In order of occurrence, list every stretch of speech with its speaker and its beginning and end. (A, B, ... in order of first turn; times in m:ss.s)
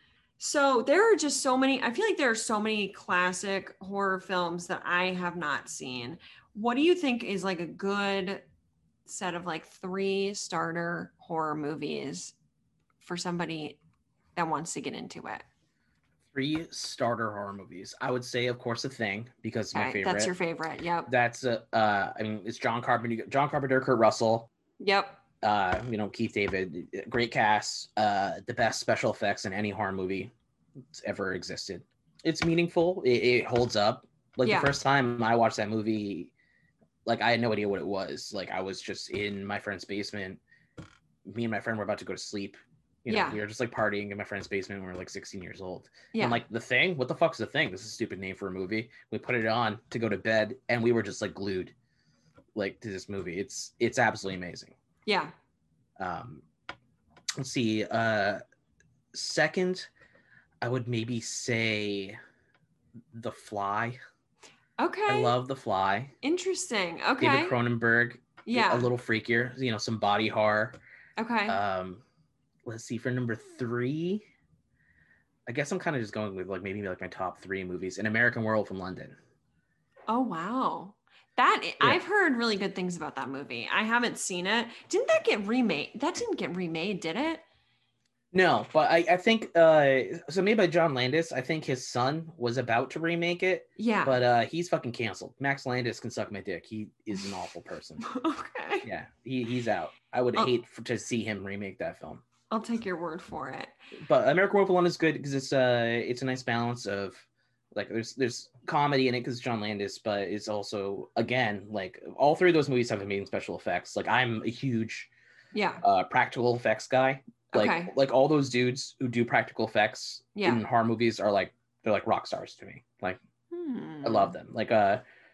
0:00.4-0:08.4 A
0:09.1-0:12.3 A
0:13.0-0:13.8 A
0:14.4-0:15.4 A
0:16.3-0:20.3 B
0:19.7-0:21.1 A
0:21.1-0:24.5 B
0:24.8-0:25.2 A
0:25.4-0:30.3 B
0:30.9-0:36.3 B
0:34.4-0:34.7 A
0:37.0-0:40.4 B
0:41.2-0:51.7 B
0:43.1-0:43.4 A
0:46.1-0:46.4 A
0:52.6-0:54.8 B
0:55.1-0:55.3 A
0:56.0-0:56.4 B
0:57.4-0:58.4 B
0:59.1-0:59.9 B
1:00.6-1:02.2 B
1:03.1-1:04.0 B
1:04.8-1:05.4 A
1:05.1-1:06.1 B
1:06.2-1:07.6 A
1:07.2-1:10.8 B
1:08.5-1:08.9 A
1:11.2-1:11.6 A
1:11.5-1:12.0 B
1:12.6-1:14.3 B
1:15.5-1:19.2 B
1:20.1-1:27.4 A
1:28.3-1:38.0 B
1:33.8-1:34.2 A
1:38.0-1:38.9 A
1:38.8-1:42.2 B
1:42.5-1:43.8 A
1:44.0-1:55.1 B
1:55.5-1:55.8 A
1:55.8-2:03.2 B
1:57.5-1:57.9 A
2:00.4-2:00.6 A
2:03.5-2:04.4 A
2:04.0-2:05.0 B